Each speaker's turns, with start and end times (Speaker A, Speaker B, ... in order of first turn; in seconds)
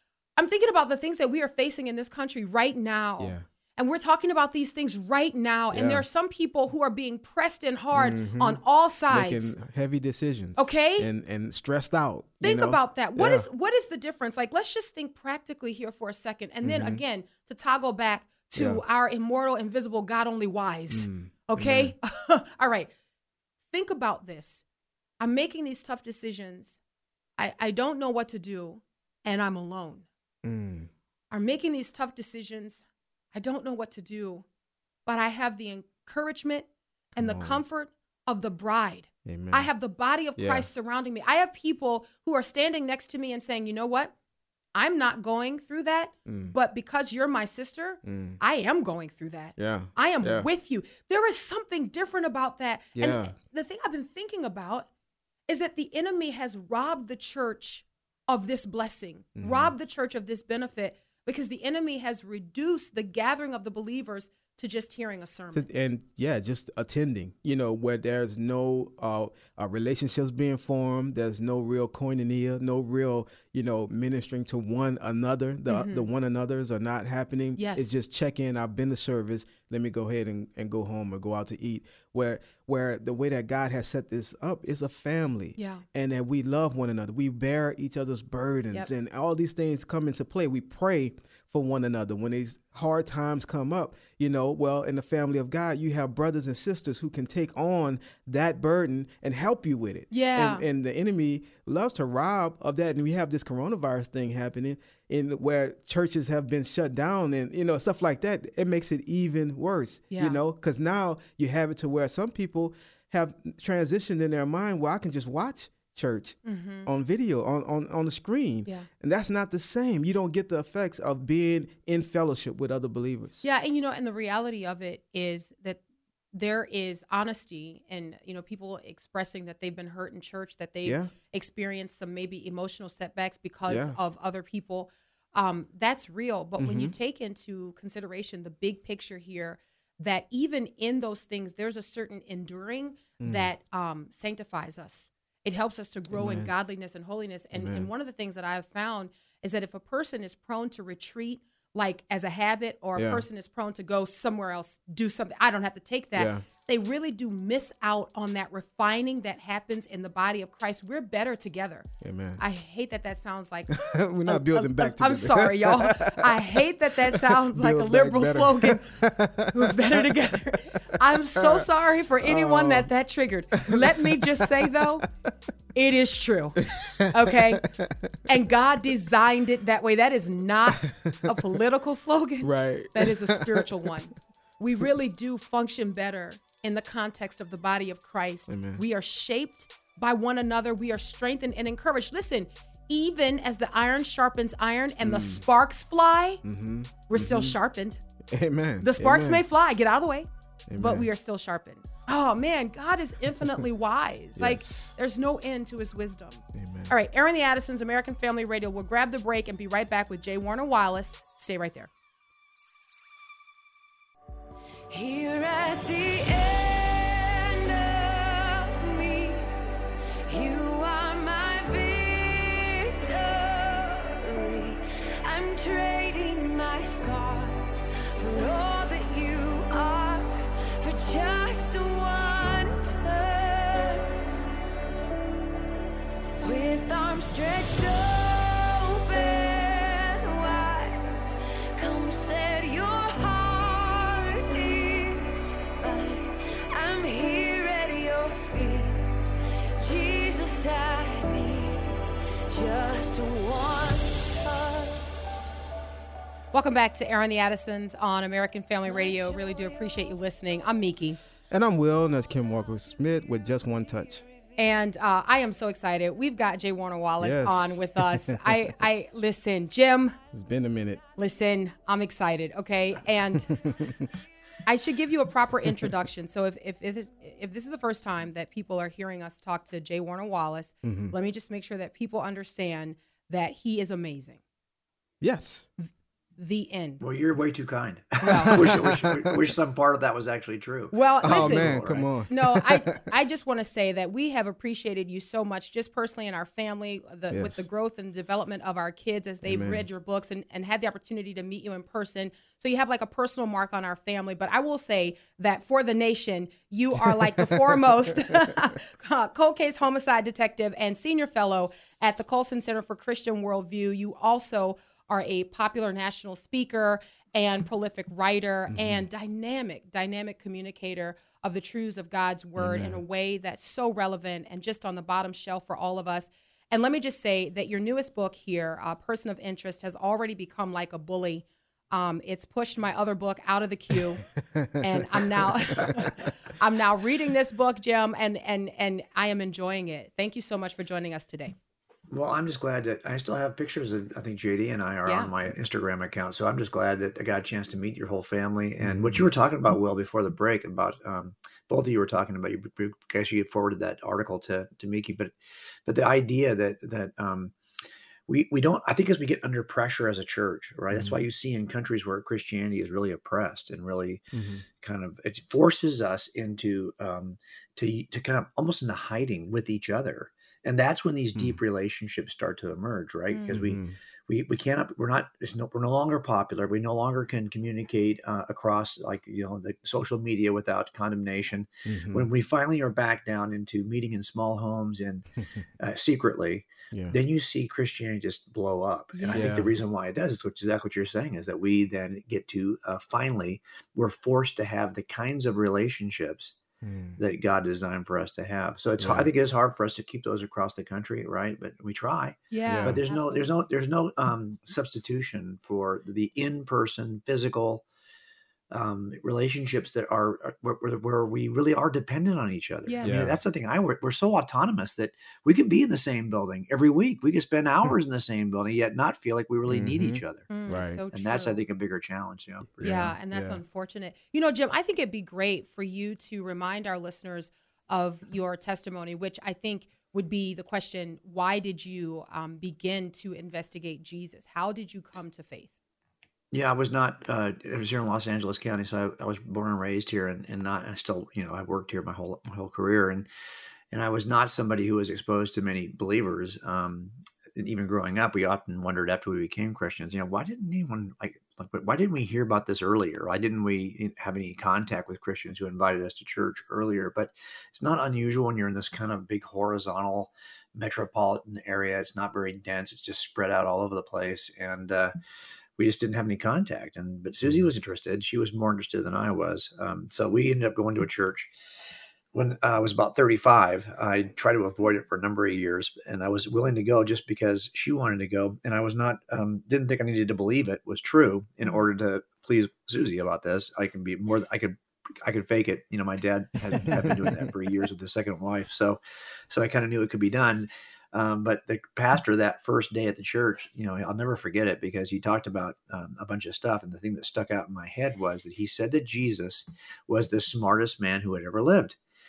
Speaker A: 0.4-9.5, 10.6-11.1, 12.4-22.9, 23.7-24.6, 25.2-26.8, 27.4-30.1, 31.3-34.4, 35.0-44.1, 44.7-54.9, 55.5-65.7, 75.7-76.1, 77.6-77.9, 85.6-85.8, 100.1-100.6, 110.1-110.4, 116.4-116.9, 123.4-125.8, 126.3-161.9, 162.4-168.9, 169.5-175.0, 175.7-177.6, 178.2-196.4, 197.1-198.0, 198.8-200.3, 200.8-211.9, 256.5-261.2, 264.6-270.2, 271.2-273.5, 274.6-284.4, 286.4-287.0, 288.2-288.7, 290.9-334.3, 334.8-341.5, 345.1-345.3, 373.3-373.6, 389.1-389.7, 402.5-403.5, 412.9-413.1, 420.5-421.6, 422.8-435.7
Speaker B: 3.2-3.4, 5.7-6.0, 7.9-8.6, 9.1-13.4, 16.6-17.0, 18.6-18.8, 20.9-21.9, 30.4-30.9, 37.2-37.6, 39.2-39.7, 40.4-40.7, 46.2-46.5, 48.0-48.4, 49.6-50.5, 53.0-53.3, 59.4-59.7, 65.5-123.5, 130.8-131.1, 133.7-134.0, 136.6-136.9, 143.2-143.5, 146.1-146.5, 147.5-147.9, 152.9-153.2, 156.2-156.4, 162.0-162.4, 163.7-170.1, 170.7-171.6, 172.2-172.9, 173.5-175.0, 176.6-178.2, 180.8-181.4, 182.4-183.7, 188.5-188.8, 195.0-195.4, 196.4-197.6, 198.3-199.4, 200.7-201.1, 204.4-204.9, 206.5-206.9, 261.5-264.2, 267.2-268.8, 270.3-271.0, 273.5-274.1, 280.8-281.1, 285.2-285.7, 288.4-289.3, 291.2-293.1, 297.3-297.6, 299.4-299.8, 318.7-319.0, 322.6-323.0, 334.4-336.3, 348.8-349.2, 360.9-361.2, 364.3-364.6, 373.5-374.0, 381.9-382.3, 389.3-389.7, 396.8-397.2, 399.0-399.3, 402.7-403.0, 413.0-413.4, 419.7-421.0, 422.8-423.6, 486.8-487.5
Speaker C: 214.9-219.7, 220.2-234.4, 236.4-241.2, 241.7-255.2
Speaker D: 287.0-292.1, 342.1-357.5, 358.3-385.3, 385.8-396.6, 397.2-407.8, 408.7-420.6, 421.1-423.1, 436.5-443.3, 443.9-465.1, 465.8-471.5, 472.3-502.0